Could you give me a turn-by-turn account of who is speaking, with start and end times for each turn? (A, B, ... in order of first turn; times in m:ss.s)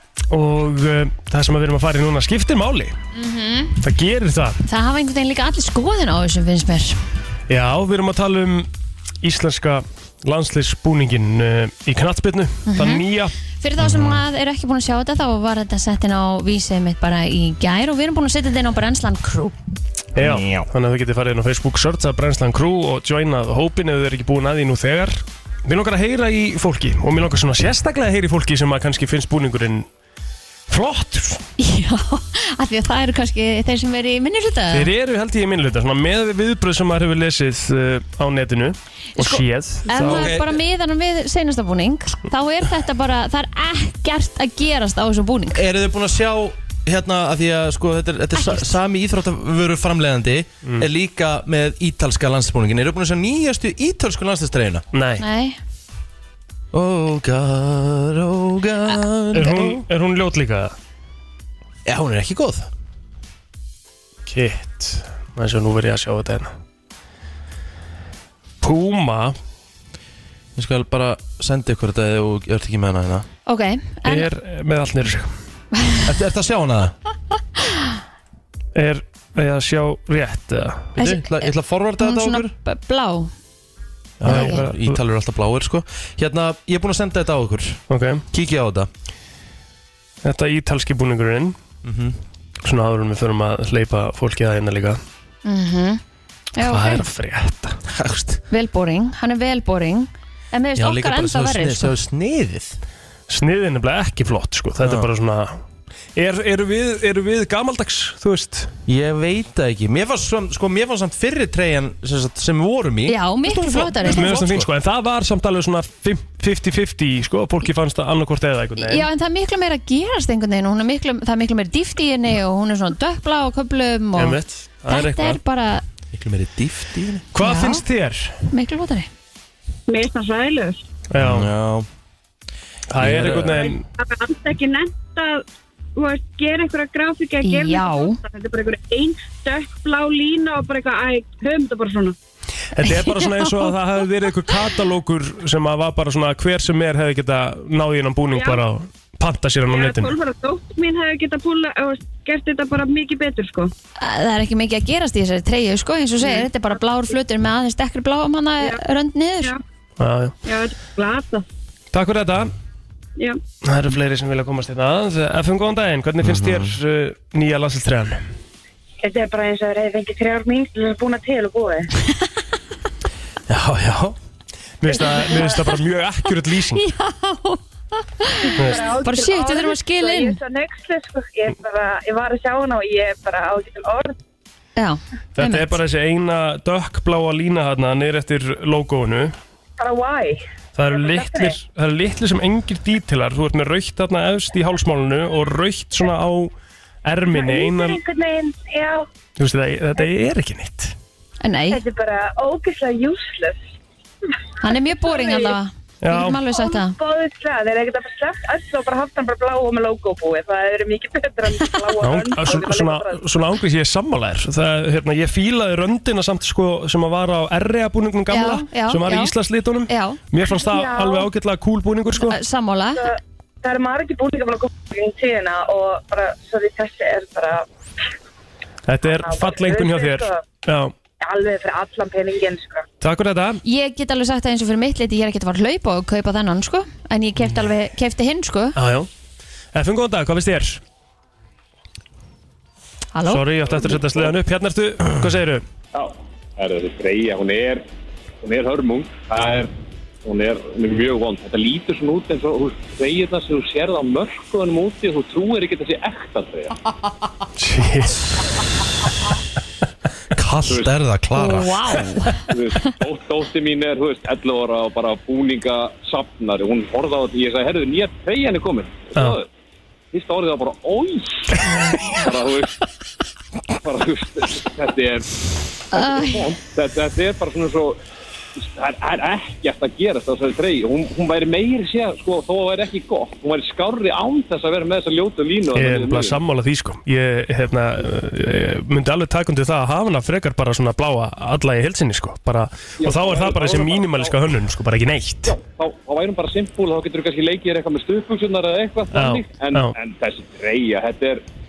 0:00.3-0:03.0 A
0:03.1-0:03.8 B
0:03.8-0:04.6 A
0:04.7-0:07.0 B
0:07.5-0:08.7 A
0:09.2-0:13.3 A
0:12.7-0:13.0 B
0:13.6-0:19.6 B
0:13.8-0:14.2 A
0:20.2-0:29.9 A
0:30.7-0:31.4 A
0:31.6-0:34.9 B
0:34.7-0:40.4 A
0:39.2-0:45.6 B
0:40.0-0:40.6 C
0:45.5-0:54.8 C
0:48.4-0:48.7 B
0:54.9-0:55.2 A
0:55.2-0:55.6 B
0:56.7-0:59.8 C
0:59.3-1:00.7 A
1:01.9-1:02.7 C
1:04.3-1:06.5 A
1:08.6-1:09.4 A
1:10.6-1:13.3 C
1:13.5-1:14.3 B
1:14.0-1:15.3 A
1:16.1-1:16.9 C
1:18.8-1:21.0 A
1:21.0-1:22.5 C
1:21.0-1:23.3 B
1:24.2-1:27.8 C
1:24.2-1:25.0 A
1:24.2-1:24.6 B
1:27.9-1:28.2 A
1:28.3-1:28.9 C
1:30.2-1:31.6 A
1:31.8-1:32.2 C
1:32.6-1:35.0 A
1:35.4-1:36.0 B
1:36.6-1:37.0 B
1:36.6-1:37.8 A
1:37.9-1:38.4 C
1:38.5-1:41.9 B
1:40.8-1:42.8 C
1:43.3-1:45.6 A
1:44.8-1:45.1 C
1:46.2-1:48.7 A
1:48.9-1:54.7 C
1:53.1-1:54.4 B
1:54.0-1:59.1 A
1:58.8-2:05.8 B
2:04.2-2:05.4 A
2:06.1-2:07.2 C
2:07.3-2:08.4 A
2:07.4-2:07.8 B
2:08.5-2:09.1 B
2:09.9-2:10.8 D
2:11.1-2:11.5 A
2:11.2-2:11.9 C
2:12.9-2:13.8 A
2:13.0-2:13.7 C
2:13.5-2:15.4 D
2:16.0-2:22.2 D
2:17.4-2:18.2 B
2:22.8-2:30.1 A
2:22.8-2:23.8 B
2:28.3-2:28.6 D
2:29.7-2:33.7 D
2:34.0-2:39.6 B
2:36.2-2:36.5 D
2:40.0-2:40.4 A
2:40.4-2:41.5 D
2:41.9-2:42.5 A
2:43.6-2:48.2 A
2:46.2-2:46.7 C
2:49.0-2:51.9 D
2:53.5-2:54.1 C
2:54.8-2:56.8 A
2:55.0-2:55.6 D
2:56.8-3:00.4 B
2:58.5-3:04.2 D
3:04.8-3:05.8 B
3:05.4-3:09.4 A
3:09.8-3:11.6 D
3:10.8-3:16.5 A
3:17.0-3:18.0 A
3:17.3-3:19.1 D
3:19.4-3:21.0 A
3:21.4-3:21.8 B
3:21.7-3:23.6 D
3:24.6-3:27.0 B
3:24.7-3:25.6 D
3:26.0-3:26.4 A
3:26.5-3:33.4 D
3:32.0-3:42.4 A
3:38.3-3:39.3 B
3:39.9-3:40.2 B
3:40.4-3:41.3 D
3:42.2-3:43.1 B
3:43.0-3:47.7 D
3:48.9-3:50.9 A
3:49.0-3:50.4 D
3:51.2-3:52.9 D
3:53.0-3:53.6 A
3:53.6-3:58.8 B
3:58.8-3:59.1 A
3:59.7-4:00.8 A
4:03.1-4:03.4 B
4:03.3-4:05.6 A
4:03.7-4:04.4 E
4:05.9-4:07.9 E
4:08.4-4:09.7 E
4:10.2-4:16.8 E
4:17.6-4:18.4 A
4:20.4-4:22.0 C
4:20.7-4:20.9 E
4:21.4-4:22.4 B
4:22.5-4:29.5 E
4:30.1-4:32.7 E
4:33.8-4:38.0 E
4:35.9-4:36.5 B
4:38.6-4:46.4 E
4:45.7-4:55.6 A
4:53.0-4:54.4 E
4:55.5-5:01.4 E
4:59.1-5:00.0 A